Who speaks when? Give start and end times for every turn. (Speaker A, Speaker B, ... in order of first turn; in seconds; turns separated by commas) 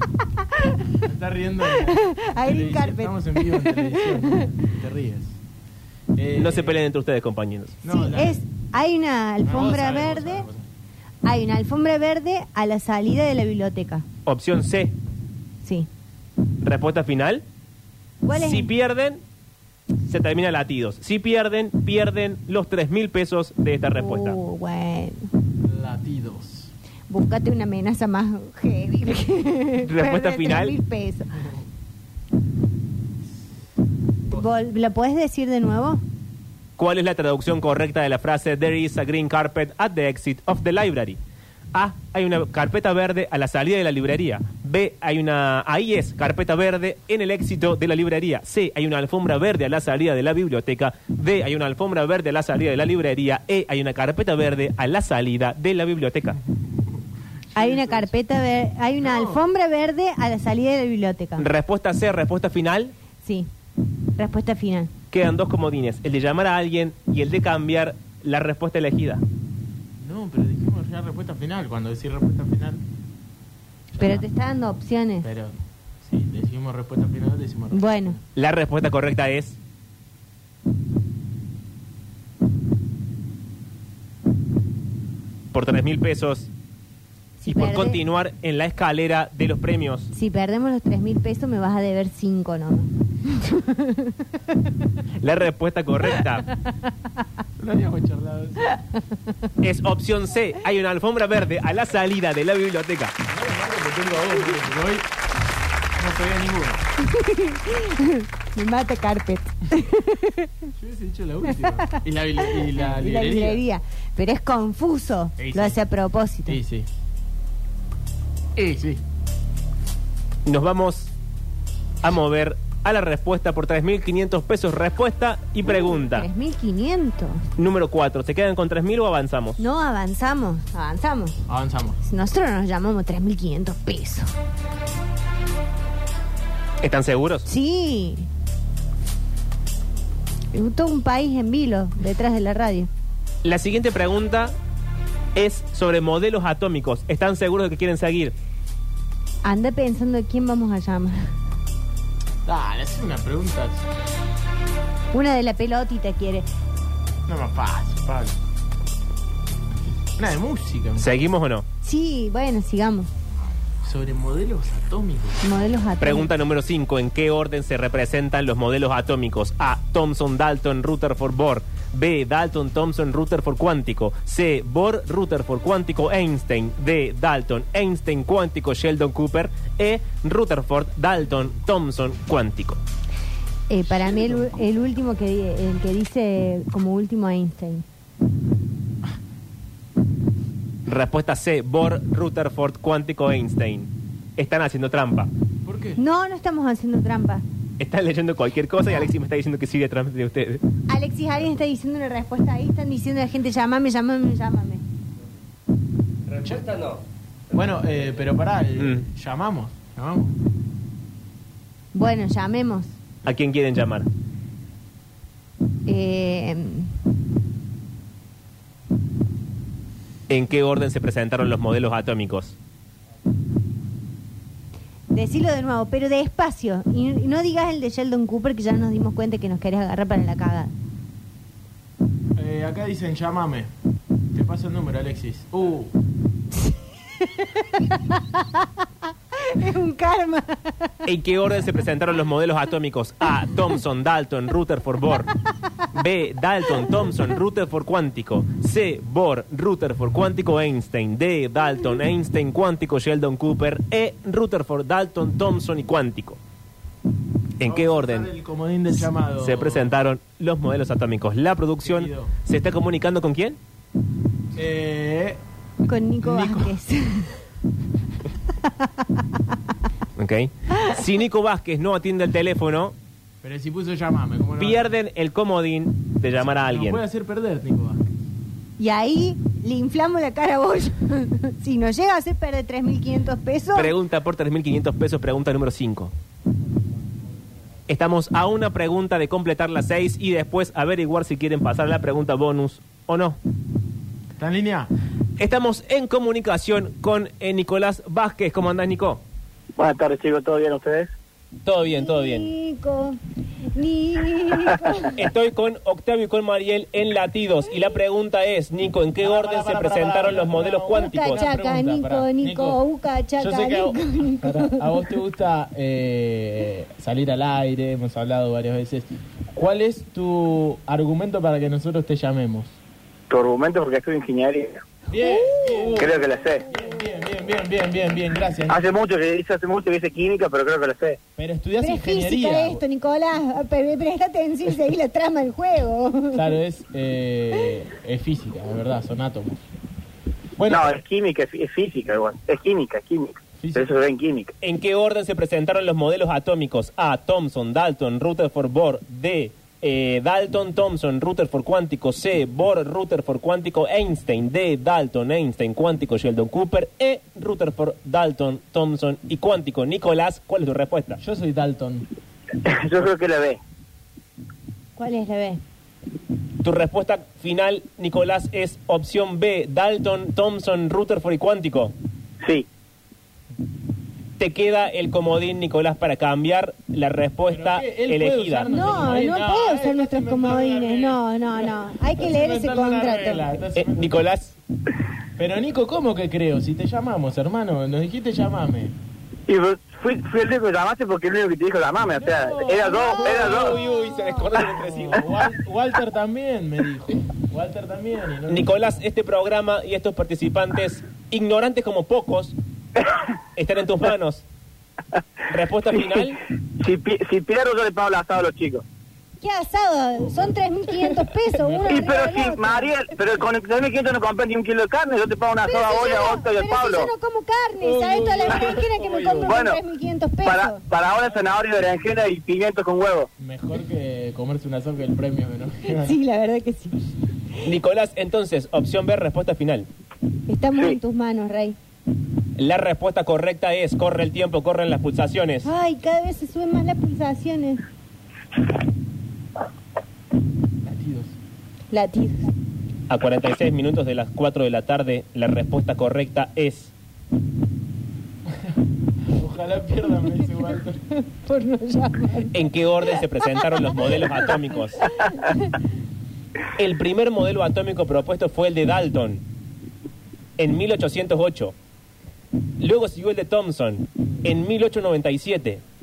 Speaker A: 1.0-5.4, Speaker B: 1.7-4.5, Speaker A: 6.1-6.8, Speaker C: 6.3-7.8, Speaker A: 7.8-8.4, Speaker B: 7.8-10.4, Speaker A: 9.4-10.7, Speaker B: 11.2-14.0, Speaker C: 14.2-14.9, Speaker B: 15.6-15.9, Speaker C: 16.6-17.4, Speaker B: 18.2-18.7, Speaker C: 18.3-19.2, Speaker C: 20.1-24.4, Speaker B: 24.0-25.3, Speaker A: 25.6-26.7, Speaker B: 27.1-31.3, Speaker C: 29.8-30.8, Speaker B: 34.3-36.0, Speaker C: 36.8-41.2, Speaker C: 41.7-56.4, Speaker A: 56.7-58.1, Speaker B: 57.5-61.5, Speaker A: 59.0-59.4, Speaker C: 61.4-62.9, Speaker B: 63.2-63.5, Speaker B: 64.2-64.9, Speaker C: 65.1-69.2, Speaker A: 70.0-72.8, Speaker A: 74.0-74.2, Speaker B: 74.0-75.3, Speaker A: 75.2-78.2, Speaker B: 77.7-78.2, Speaker C: 78.3-79.6, Speaker C: 85.5-86.5, Speaker B: 87.4-88.0, Speaker C: 87.5-90.1, Speaker B: 90.1-94.2, Speaker C: 95.2-96.5, Speaker A: 97.6-98.8, Speaker C: 99.6-103.1, Speaker A: 103.3-105.1, Speaker A: 105.9-106.9, Speaker B: 107.0-110.5, Speaker A: 110.8-113.6, Speaker B: 111.6-116.6, Speaker A: 115.4-115.8, Speaker A: 116.5-116.9, Speaker A: 118.5-119.0, Speaker C: 120.5-121.1, Speaker C: 122.0-126.3, Speaker B: 125.6-127.4, Speaker C: 127.6-129.6, Speaker B: 129.6-131.4, Speaker A: 131.5-132.0, Speaker B: 132.0-134.3, Speaker C: 136.8-137.4, Speaker B: 137.4-138.3, Speaker B: 140.5-142.9, Speaker C: 143.4-144.5, Speaker C: 145.3-148.3, Speaker B: 149.4-151.3, Speaker A: 152.4-153.8, Speaker B: 155.1-156.5, Speaker A: 157.3-158.3, Speaker A: 160.2-161.1, Speaker C: 161.0-161.7, Speaker B: 161.8-163.1, Speaker A: 163.8-165.4, Speaker B: 165.4-166.3, Speaker C: 166.0-182.8, Speaker B: 183.7-187.8, Speaker A: 183.8-184.6, Speaker C: 190.8-195.3, Speaker A: 195.6-196.0, Speaker B: 196.0-197.4, Speaker C: 197.8-200.6, Speaker B: 200.9-204.8, Speaker A: 206.3-206.8, Speaker A: 207.5-210.3, Speaker C: 208.8-209.0, Speaker B: 211.9-213.0, Speaker C: 213.2-214.1, Speaker B: 215.8-216.9, Speaker C: 220.3-222.6, Speaker B: 225.1-230.7, Speaker A: 232.3-233.7, Speaker A: 234.3-235.9, Speaker B: 236.5-240.9, Speaker C: 241.0-245.3, Speaker C: 245.9-256.4, Speaker C: 257.6-258.3, Speaker A: 257.6-259.9, Speaker C: 259.4-263.6, Speaker A: 261.8-262.3, Speaker A: 264.5-265.4, Speaker B: 265.8-267.4, Speaker A: 266.2-266.8, Speaker B: 268.6-269.1, Speaker C: 270.2-272.9, Speaker B: 270.7-271.0, Speaker A: 273.4-274.9, Speaker C: 274.6-277.0, Speaker A: 276.3-278.1, Speaker B: 278.8-283.9, Speaker C: 283.7-286.1, Speaker C: 287.9-293.4, Speaker A: 294.4-294.9, Speaker C: 295.4-299.2, Speaker D: 299.8-301.1, Speaker C: 301.6-302.5, Speaker B: 301.9-303.2, Speaker B: 303.7-305.2, Speaker C: 305.1-311.4, Speaker A: 309.2-312.8, Speaker B: 310.9-315.0, Speaker A: 313.4-322.8, Speaker D: 323.3-324.8, Speaker A: 325.1-328.9, Speaker B: 325.1-326.0, Speaker D: 325.9-326.6, Speaker D: 328.7-331.2, Speaker A: 331.4-332.8, Speaker B: 331.8-336.5, Speaker A: 336.3-339.6, Speaker A: 340.6-341.0, Speaker D: 340.7-344.5, Speaker A: 343.6-343.9, Speaker C: 344.6-361.2, Speaker A: 361.2-362.1, Speaker D: 362.6-363.6, Speaker B: 364.9-365.6, Speaker C: 366.6-371.9, Speaker D: 372.4-372.7, Speaker C: 374.4-378.8, Speaker A: 377.5-384.2, Speaker B: 378.7-383.5, Speaker C: 383.8-384.6, Speaker A: 385.4-388.9, Speaker D: 389.5-393.8, Speaker A: 392.1-393.8, Speaker B: 392.8-394.5, Speaker C: 393.2-395.4, Speaker A: 394.5-398.9, Speaker C: 398.5-402.5, Speaker C: 403.6-404.4, Speaker C: 405.5-406.4, Speaker D: 405.9-406.2, Speaker D: 406.8-408.8, Speaker B: 409.4-412.9, Speaker A: 411.6-412.1, Speaker D: 411.9-417.1, Speaker B: 415.6-420.8, Speaker C: 417.8-419.5, Speaker A: 417.9-419.5, Speaker D: 419.5-419.8, Speaker D: 420.4-423.3, Speaker A: 421.1-421.5, Speaker A: 423.4-426.2, Speaker B: 425.8-427.0, Speaker C: 427.6-429.9, Speaker B: 430.5-431.8, Speaker C: 432.6-435.7, Speaker B: 435.6-437.8, Speaker A: 440.8-441.3, Speaker B: 441.9-442.5, Speaker C: 443.1-446.9, Speaker A: 448.5-451.0, Speaker B: 451.1-455.8, Speaker C: 452.5-455.1, Speaker C: 456.8-459.4, Speaker C: 460.6-461.7, Speaker C: 462.8-465.8